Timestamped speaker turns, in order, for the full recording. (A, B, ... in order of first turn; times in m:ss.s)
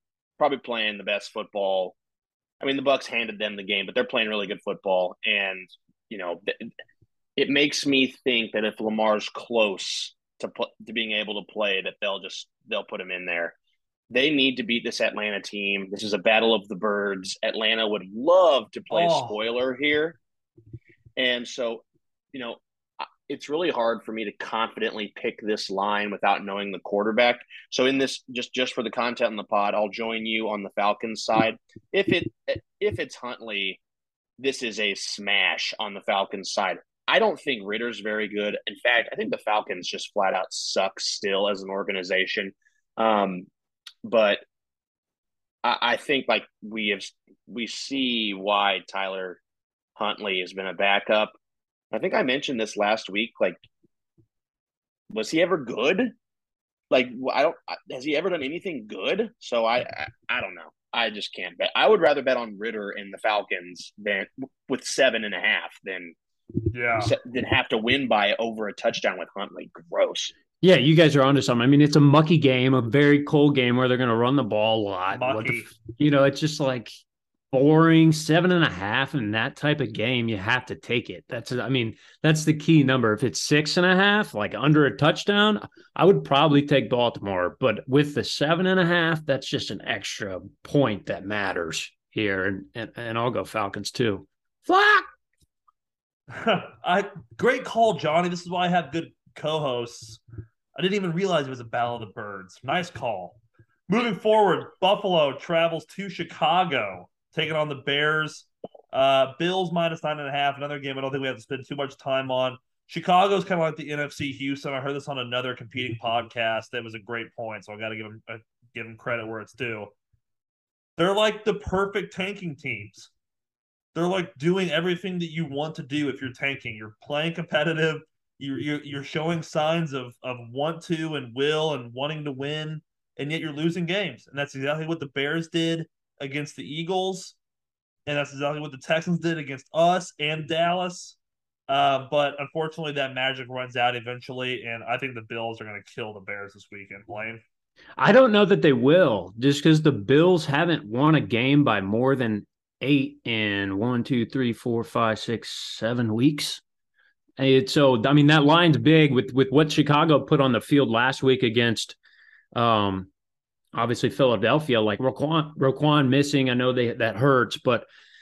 0:00.4-0:02.0 A
0:02.6-0:06.7 A
0:07.4-0:13.6 A
0:14.1-0:20.2 A
0:18.9-0:19.4 B
0:21.2-0:33.8 A
0:34.4-0:43.5 A
0:44.0-0:44.4 A
0:45.6-0:49.4 A
0:50.0-0:51.3 A
0:51.9-0:53.6 A
0:55.1-0:56.1 A
0:56.9-1:06.1 A
1:06.7-1:07.1 B
1:07.0-1:10.3 A
1:10.6-1:16.9 C
1:15.1-1:15.7 B
1:17.5-1:35.1 C
1:36.3-1:40.2 B
1:40.8-1:59.9 B
2:01.0-2:03.1 B
2:03.9-2:17.4 B
2:18.1-2:21.2 B
2:21.7-2:27.4 B
2:28.0-2:36.6 C
2:37.4-2:42.0 C
2:42.5-2:43.1 C
2:43.7-2:47.9 C